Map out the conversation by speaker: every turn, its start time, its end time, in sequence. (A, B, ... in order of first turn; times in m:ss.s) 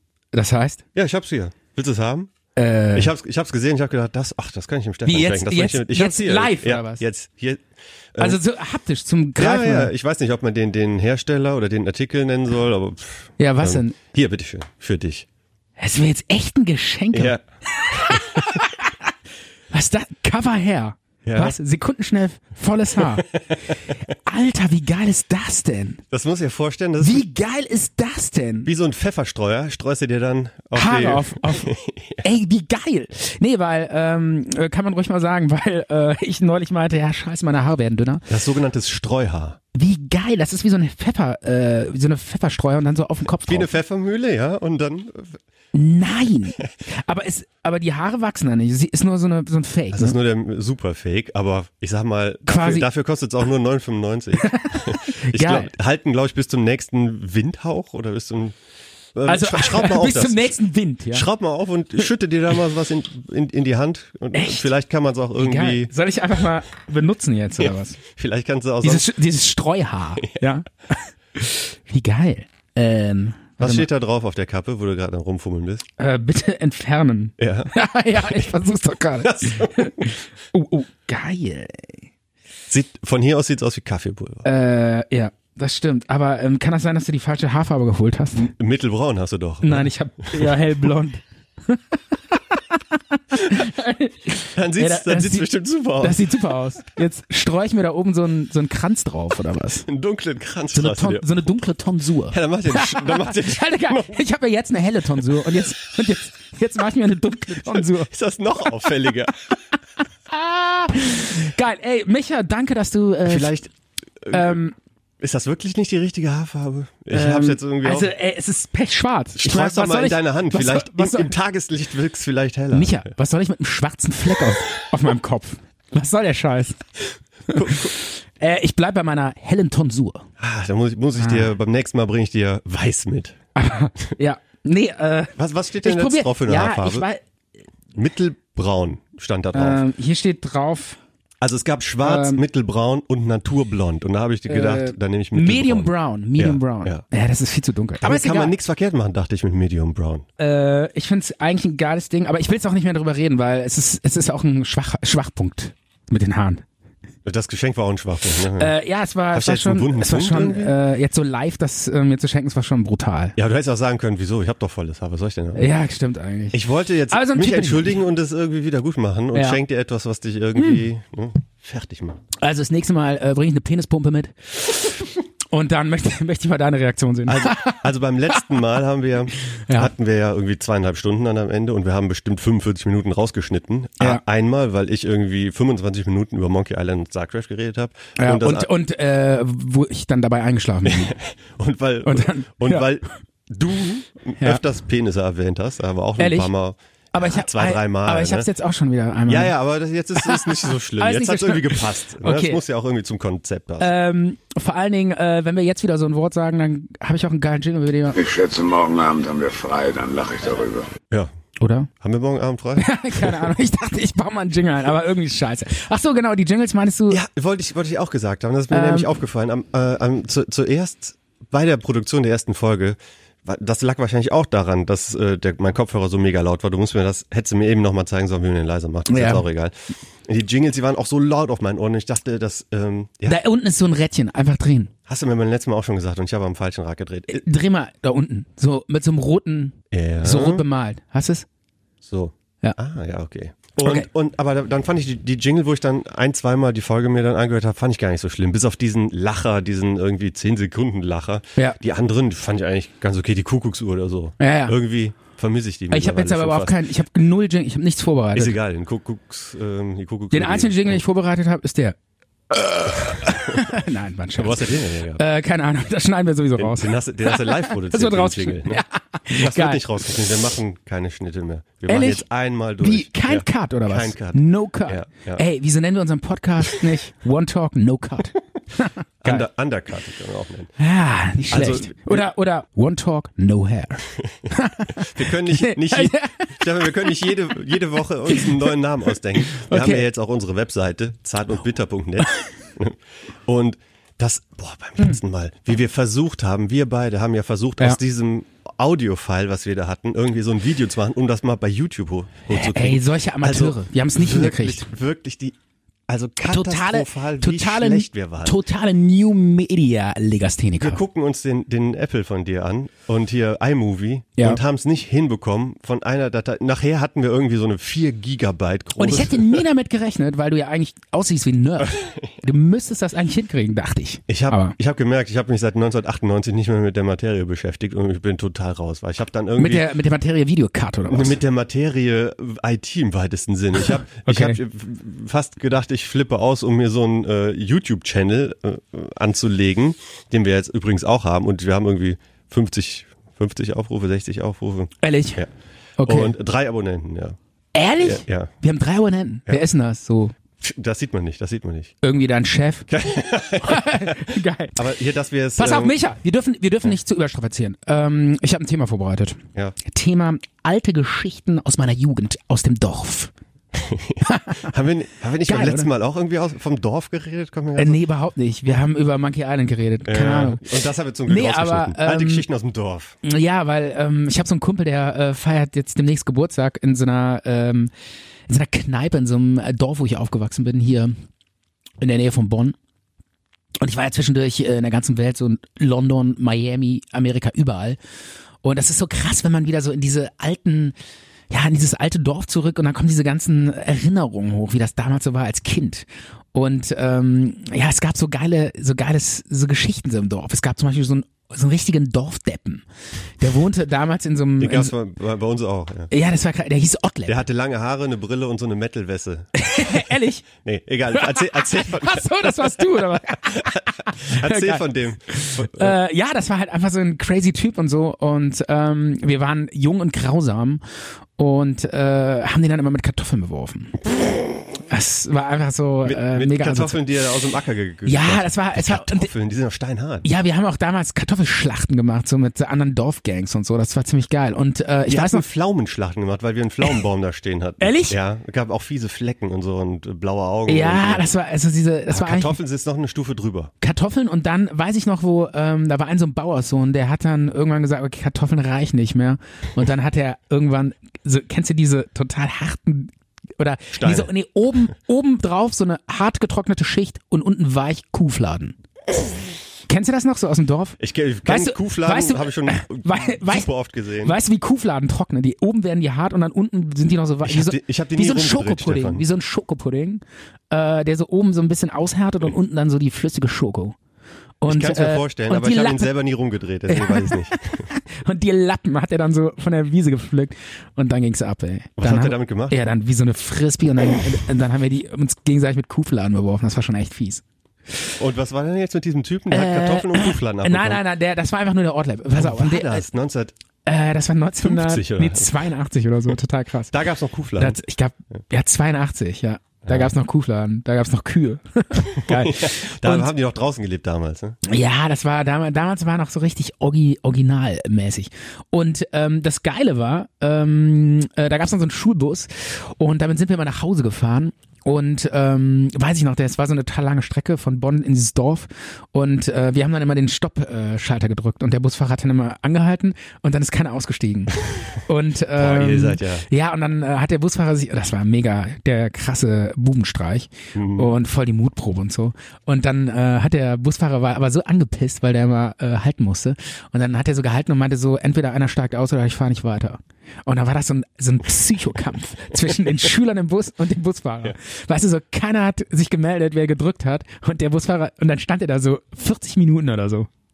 0:00.3-0:00.8 A
0:01.0-0:02.3 B
0:02.6-0:03.1 A
0:02.9-0:08.4 B
0:05.0-0:07.0 A
0:08.2-0:09.9 A
0:09.4-0:15.3 B
0:13.4-0:14.0 A
0:15.8-0:19.0 A
0:17.1-0:18.6 B
0:19.7-0:23.3 A
0:21.2-0:21.6 B
0:23.0-0:23.6 B
0:23.9-0:26.0 A
0:26.1-0:27.2 B
0:27.0-0:28.7 A
0:28.6-0:32.2 B
0:30.8-0:38.3 A
0:38.3-0:39.6 B
0:39.7-0:43.7 A
0:43.5-0:45.4 B
0:45.7-0:50.2 A
0:49.9-0:58.6 B
0:52.5-0:52.9 A
0:54.4-0:55.7 A
0:59.2-1:00.5 B
0:59.3-1:01.3 A
1:01.1-1:05.9 B
1:04.3-1:04.7 A
1:05.4-1:08.0 A
1:07.6-1:09.1 B
1:08.8-1:13.9 A
1:10.2-1:10.5 B
1:13.6-1:15.9 B
1:16.0-1:22.0 A
1:17.4-1:18.5 B
1:19.2-1:20.1 B
1:22.7-1:24.5 B
1:24.4-1:28.5 A
1:28.4-1:30.5 B
1:29.6-1:35.5 A
1:34.5-1:36.2 B
1:36.0-1:39.9 A
1:39.9-1:41.3 B
1:40.7-1:48.9 A
1:42.3-1:44.2 B
1:45.2-1:45.7 B
1:47.6-1:49.3 B
1:50.3-1:53.6 A
1:53.3-1:53.7 B
1:54.2-1:54.6 B
1:54.3-1:54.8 A
1:55.2-1:58.1 B
1:57.1-2:01.3 A
1:59.4-2:03.0 B
2:02.7-2:10.3 A
2:07.5-2:08.0 B
2:10.4-2:13.4 B
2:11.2-2:11.5 A
2:13.6-2:17.2 A
2:15.4-2:17.1 B
2:18.0-2:19.8 B
2:19.5-2:21.0 A
2:21.4-2:27.0 B
2:22.0-2:22.4 A
2:24.5-2:28.5 A
2:28.0-2:30.3 B
2:30.4-2:36.6 A
2:37.3-2:38.7 B
2:38.6-2:43.4 A
2:39.3-2:40.8 B
2:43.4-2:45.7 B
2:45.6-2:48.0 A
2:46.5-2:52.2 B
2:49.3-2:49.6 A
2:52.4-2:58.4 A
2:57.3-3:08.7 B
2:59.5-2:59.9 A
3:08.2-3:11.2 A
3:10.8-3:18.5 B
3:12.1-3:12.9 A
3:16.2-3:16.5 A
3:17.1-3:19.6 A
3:19.3-3:23.9 B
3:20.2-3:22.6 A
3:23.8-3:28.2 A
3:28.1-3:30.9 C
3:31.6-3:31.9 A
3:32.0-3:33.5 B
3:32.8-3:37.2 A
3:37.1-3:49.7 B
3:38.7-3:39.1 A
3:49.1-3:49.4 A
3:50.2-3:53.4 B
3:53.3-3:54.9 A
3:55.1-3:57.5 B
3:57.3-4:01.5 A
3:59.9-4:00.6 B
4:02.0-4:16.8 B
4:03.8-4:04.1 A
4:14.4-4:14.8 A
4:15.9-4:18.6 A
4:18.3-4:21.0 B
4:20.3-4:22.0 A
4:22.5-4:29.8 A
4:24.4-4:25.2 B
4:26.6-4:28.8 B
4:29.4-4:35.4 B
4:31.9-4:32.3 A
4:32.8-4:39.5 A
4:39.2-4:40.7 B
4:40.8-4:47.2 A
4:41.5-4:42.2 B
4:45.0-5:05.6 B
4:48.3-4:48.7 A
4:49.5-4:50.1 A
5:02.5-5:04.9 A
5:06.1-5:08.6 B
5:06.5-5:11.0 A
5:10.8-5:19.6 B
5:19.0-5:24.8 A
5:21.8-5:22.3 B
5:24.3-5:29.9 B
5:29.6-5:31.4 A
5:31.1-5:45.5 B
5:34.1-5:34.6 A
5:45.0-5:45.4 A
5:46.0-5:46.4 A
5:46.0-5:47.4 B
5:47.7-5:50.4 A
5:48.0-5:48.5 B
5:50.6-5:51.9 B
5:52.0-5:52.9 A
5:52.9-5:56.0 B
5:53.6-5:54.8 A
5:55.6-6:03.3 A
6:03.7-6:08.0 B
6:04.2-6:04.7 A
6:05.4-6:05.9 A
6:07.8-6:10.7 A
6:10.1-6:13.2 B
6:11.3-6:12.5 A
6:13.2-6:17.9 A
6:18.5-6:21.2 A
6:22.0-6:22.8 A
6:23.8-6:28.0 A
6:28.6-6:31.0 A
6:31.5-6:42.8 A
6:43.4-6:44.9 A
6:44.6-6:46.1 B
6:46.1-6:47.4 A
6:47.3-6:56.0 B
6:49.6-6:50.4 A
6:51.1-7:00.8 A
7:01.4-7:04.0 A
7:04.8-7:07.0 A
7:06.0-7:10.3 B
7:08.1-7:09.3 A
7:10.2-7:15.5 A
7:15.1-7:21.3 B
7:17.8-7:18.2 A
7:20.7-7:22.6 A
7:22.1-7:23.7 B
7:23.8-7:38.8 A
7:33.9-7:34.3 B
7:39.9-7:43.7 A
7:41.0-7:44.4 B
7:44.2-7:54.0 A
7:47.4-7:49.2 B
7:54.6-7:56.1 A
7:54.7-7:57.9 B
7:56.9-8:07.4 A
8:02.0-8:02.8 B
8:08.2-8:11.0 B
8:09.5-8:13.1 A
8:12.4-8:13.5 B
8:13.8-8:17.0 A
8:14.6-8:15.6 B
8:16.9-8:17.8 B
8:17.6-8:23.3 A
8:19.8-8:20.1 B
8:22.2-8:24.6 B
8:24.6-9:10.3 A
8:45.6-8:46.5 B
8:50.8-8:51.1 B